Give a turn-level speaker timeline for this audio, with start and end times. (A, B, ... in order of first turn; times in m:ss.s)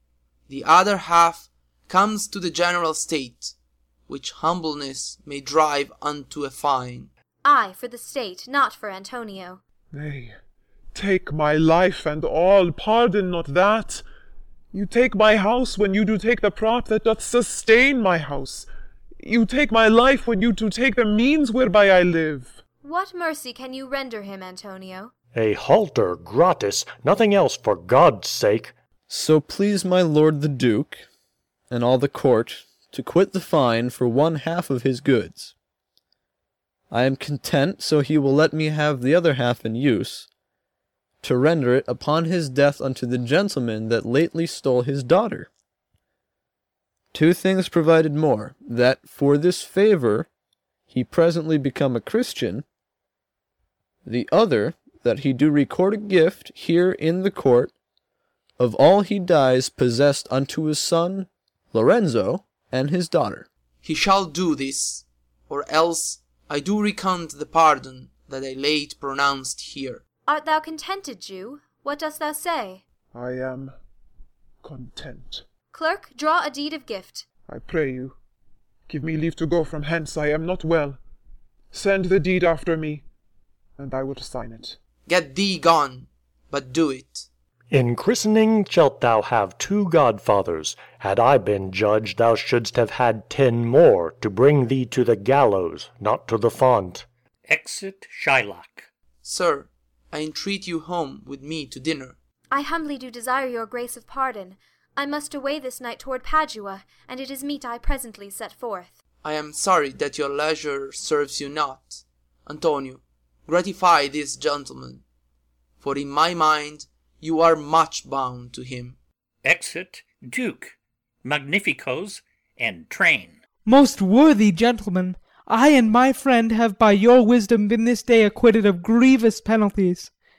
0:00.5-0:03.5 A
0:04.1-0:07.1 A
0:07.4-0:09.6 B
0:09.9-0:10.4 C
0:10.9-0:14.0 C
0:14.7-0:18.7 C
0:19.2-0:22.6 C
0:22.8-0:25.1 B
0:25.3-0:28.8 D
0:29.1-0:31.1 E
0:31.7-0:35.5 E
0:36.9-0:40.3 E
0:41.2-0:45.5 E
0:47.1-0:50.3 E
0:50.9-0:52.6 E
0:54.0-0:57.7 E
0:58.6-1:03.5 E
1:03.8-1:10.0 A
1:10.3-1:12.8 B
1:13.1-1:13.8 C
1:14.6-1:15.4 C
1:15.7-1:17.2 B
1:17.5-1:18.2 C
1:18.9-1:21.0 C
1:21.7-1:23.0 C
1:23.8-1:24.8 C
1:25.1-1:27.3 A
1:27.7-1:37.0 D
1:37.5-1:38.9 F
1:39.2-1:42.2 A
1:42.5-1:49.0 B
1:49.2-1:55.0 A
1:55.8-1:59.0 A
1:59.4-2:03.4 F
2:03.6-2:10.1 G